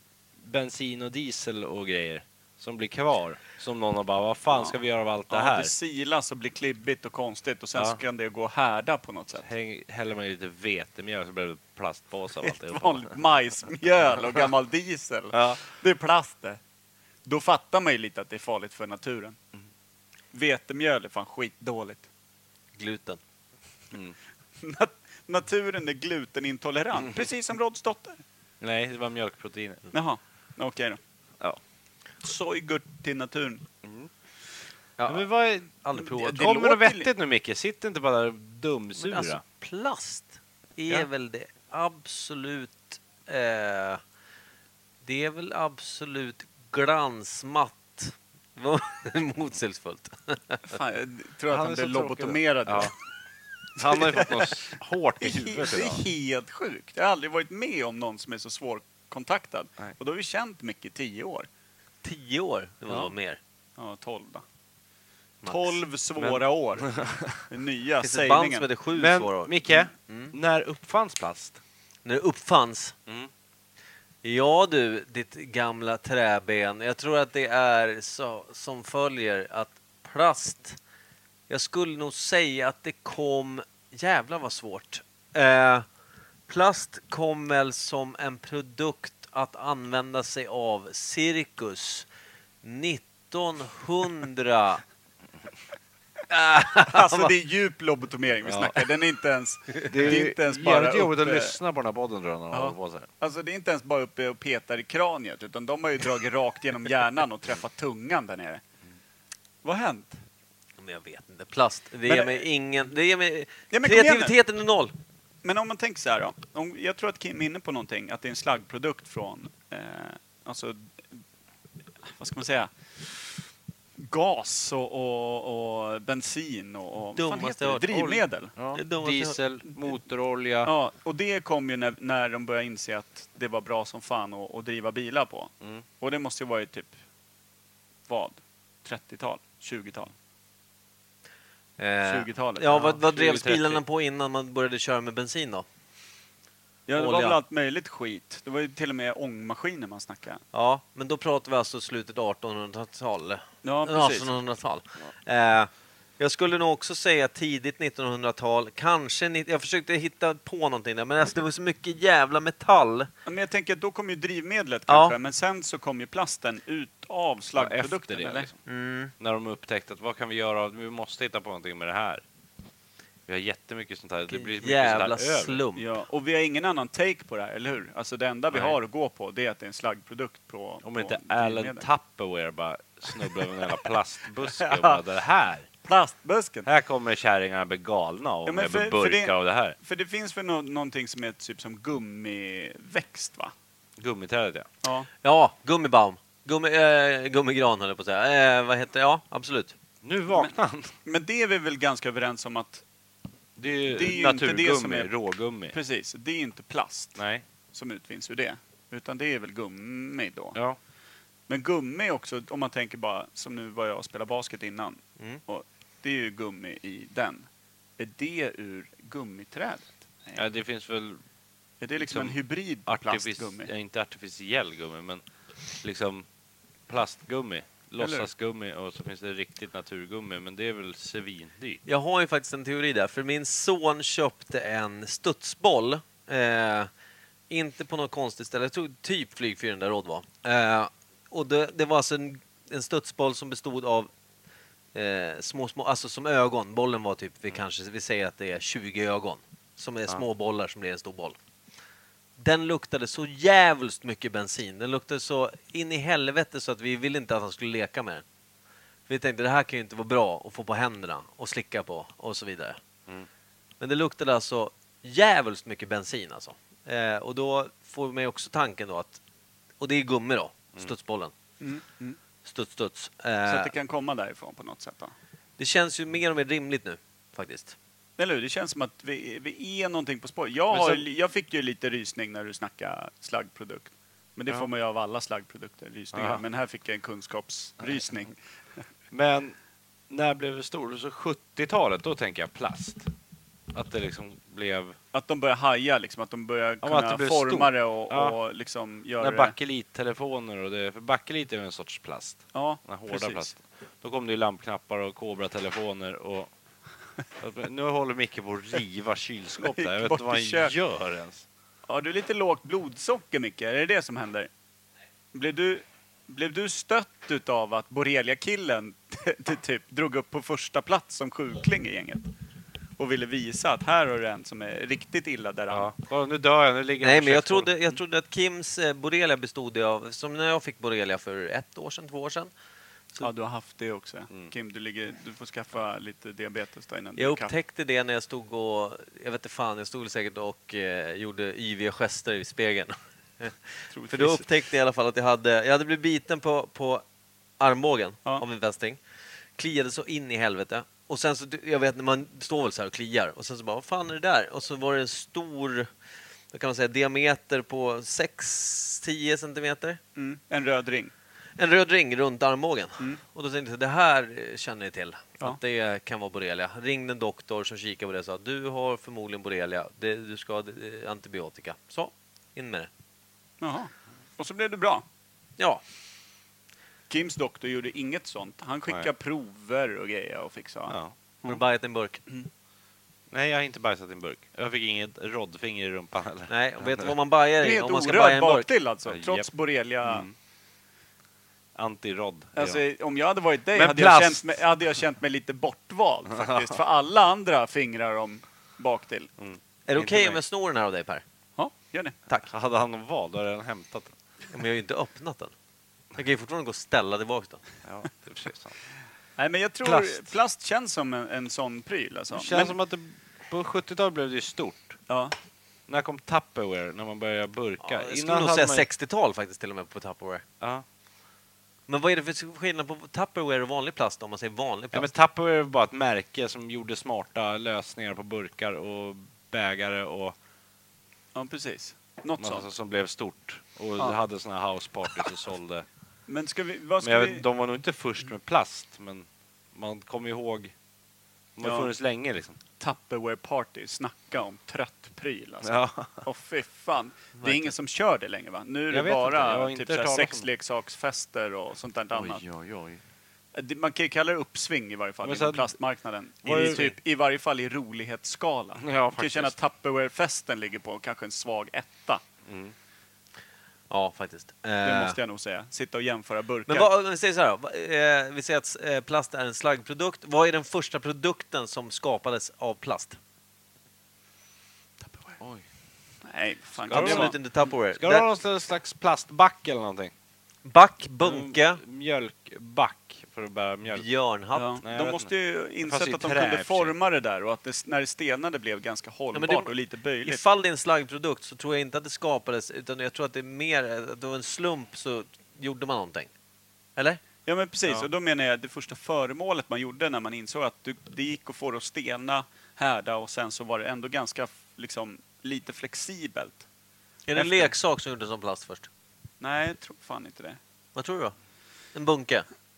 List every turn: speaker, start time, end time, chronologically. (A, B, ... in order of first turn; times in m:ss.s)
0:00.4-0:05.7 A
0:05.3-0:09.5 B
0:09.4-0:13.2 A
0:12.4-0:16.6 B
0:15.3-0:15.6 A
0:17.2-0:19.4 B
0:20.3-0:22.1 B
0:22.8-0:23.2 C
0:24.6-0:28.2 B
0:28.6-0:29.8 A
0:29.9-0:31.0 B
0:32.2-0:33.6 B
0:33.8-0:34.1 A
0:35.0-0:36.5 C
0:35.1-0:35.8 A
0:36.0-0:37.1 B
0:36.3-0:39.4 A
0:39.0-0:44.0 C
0:45.0-0:50.6 C
0:50.7-0:52.9 B
0:51.5-0:52.9 A
0:53.8-0:56.0 A
0:53.8-0:54.6 B
0:55.2-1:01.5 B
1:02.0-1:03.4 C
1:02.9-1:03.1 A
1:03.8-1:04.4 B
1:05.4-1:05.8 C
1:05.4-1:08.7 B
1:06.2-1:07.4 A
1:08.0-1:10.3 C
1:08.9-1:11.6 A
1:12.0-1:13.0 C
1:14.2-1:20.8 C
1:21.5-1:25.8 C
1:26.5-1:32.1 C
1:32.6-1:34.8 C
1:36.3-1:37.3 C
1:36.9-1:41.6 B
1:38.5-1:38.9 A
1:39.9-1:43.1 A
1:42.5-1:48.6 B
1:49.6-1:50.2 B
1:50.8-1:54.9 C
1:52.1-1:52.4 B
1:53.7-1:54.3 B
1:55.4-2:01.2 B
2:02.2-2:03.1 B
2:04.0-2:08.5 B
2:07.2-2:09.4 C
2:08.6-2:10.7 A
2:10.6-2:17.0 B
2:18.1-2:20.1 B
2:21.8-2:25.6 C
2:22.0-2:23.0 B
2:22.7-2:23.8 A
2:26.9-2:30.4 B
2:27.0-2:27.4 C
2:30.5-2:43.1 C
2:33.6-2:34.4 B
2:43.3-2:48.5 B
2:44.9-2:45.2 C
2:47.6-2:48.6 A
2:48.7-2:49.1 C
2:49.2-2:52.2 A
2:53.3-2:55.6 A
2:54.3-2:55.8 C
2:55.8-3:01.8 B
2:58.5-2:58.8 A
3:00.8-3:05.7 A
3:04.5-3:05.0 B
3:05.8-3:06.7 B
3:06.6-3:09.8 A
3:08.5-3:13.5 B
3:14.0-3:14.7 A
3:14.8-3:15.1 B
3:15.2-3:19.8 C
3:20.0-3:20.9 A
3:21.1-3:22.8 B
3:23.6-3:25.8 A
3:23.9-3:25.1 B
3:25.7-3:27.2 B
3:27.2-3:27.5 A
3:27.7-3:30.6 B
3:31.5-3:37.5 B
3:38.0-3:40.4 B
3:40.4-3:41.2 A
3:41.8-3:43.7 B
3:42.0-3:45.2 A
3:45.8-3:46.3 A
3:46.9-3:51.8 A
3:48.0-3:48.3 B
3:51.9-3:56.9 C
3:57.5-4:04.1 C
4:05.0-4:11.4 C
4:12.4-4:18.2 C
4:19.1-4:22.8 C
4:23.8-4:29.2 C
4:29.8-4:31.3 C
4:31.6-4:32.2 B
4:32.4-4:33.7 C
4:33.5-4:35.1 B
4:35.6-4:37.8 C
4:38.2-4:48.4 B
4:40.7-4:41.0 A
4:46.1-4:46.4 A
4:49.1-4:49.6 A
4:50.1-4:53.1 A
4:53.7-4:55.0 A
4:55.1-4:59.5 B
4:56.8-4:58.4 A
4:59.2-5:06.5 A
5:02.5-5:03.5 B
5:07.4-5:11.5 A
5:09.6-5:10.7 B
5:11.9-5:14.5 B
5:15.3-5:22.3 B
5:23.0-5:25.9 B
5:25.7-5:27.7 A
5:27.0-5:32.5 C
5:33.2-5:37.5 B
5:37.2-5:47.0 C
5:43.9-5:44.4 B
5:47.6-5:49.0 C
5:49.6-5:55.9 C
5:56.5-6:00.0 C
6:00.2-6:01.1 B
6:01.6-6:12.9 C
6:13.6-6:15.0 B
6:17.1-6:21.6 B
6:20.9-6:21.1 A
6:21.5-6:22.2 C
6:23.3-6:27.1 A
6:26.5-6:28.7 C
6:27.6-6:30.3 B
6:29.1-6:29.5 A
6:30.0-6:30.4 A
6:31.8-6:32.8 A
6:32.6-6:39.3 B
6:33.7-6:34.6 A
6:36.3-6:36.8 A
6:39.4-6:40.4 A
6:39.9-6:41.2 C
6:41.6-6:42.2 B
6:42.5-6:44.2 A
6:44.5-6:45.5 C
6:46.2-6:47.6 C
6:47.8-6:48.8 A
6:49.4-6:52.8 B
6:49.8-6:50.3 A
6:52.3-6:55.0 A
6:55.1-6:55.3 B
6:55.9-6:58.9 A
6:57.8-7:00.4 C
7:00.6-7:00.8 A
7:01.9-7:05.1 C
7:04.9-7:10.4 A
7:11.4-7:12.7 B
7:12.4-7:15.9 A
7:16.3-7:17.4 B
7:17.0-7:20.7 A
7:21.6-7:22.6 A
7:21.6-7:21.9 B
7:22.8-7:32.4 B
7:25.6-7:26.2 A
7:27.4-7:27.7 C
7:28.9-7:30.5 A
7:32.1-7:33.0 A
7:33.6-7:42.2 B
7:35.2-7:35.7 A
7:36.4-7:36.9 A
7:38.8-7:39.5 A
7:42.5-7:42.7 A
7:43.9-7:45.2 C
7:44.8-7:46.9 B
7:46.7-7:53.2 C
7:55.1-7:55.4 B
7:56.3-7:57.4 B
7:56.8-8:00.1 A
7:56.9-7:58.3 C
8:00.6-8:01.8 C
8:01.2-8:04.1 A
8:03.9-8:04.8 C
8:04.6-8:10.4 B
8:04.8-8:05.3 A
8:05.8-8:06.9 A
8:09.3-8:09.7 C
8:10.2-8:16.3 C
8:17.0-8:17.2 C
8:17.5-8:26.6 B
8:27.3-8:28.9 C
8:27.3-8:27.7 B
8:29.4-8:30.6 B
8:31.0-8:31.4 C
8:31.9-8:32.5 C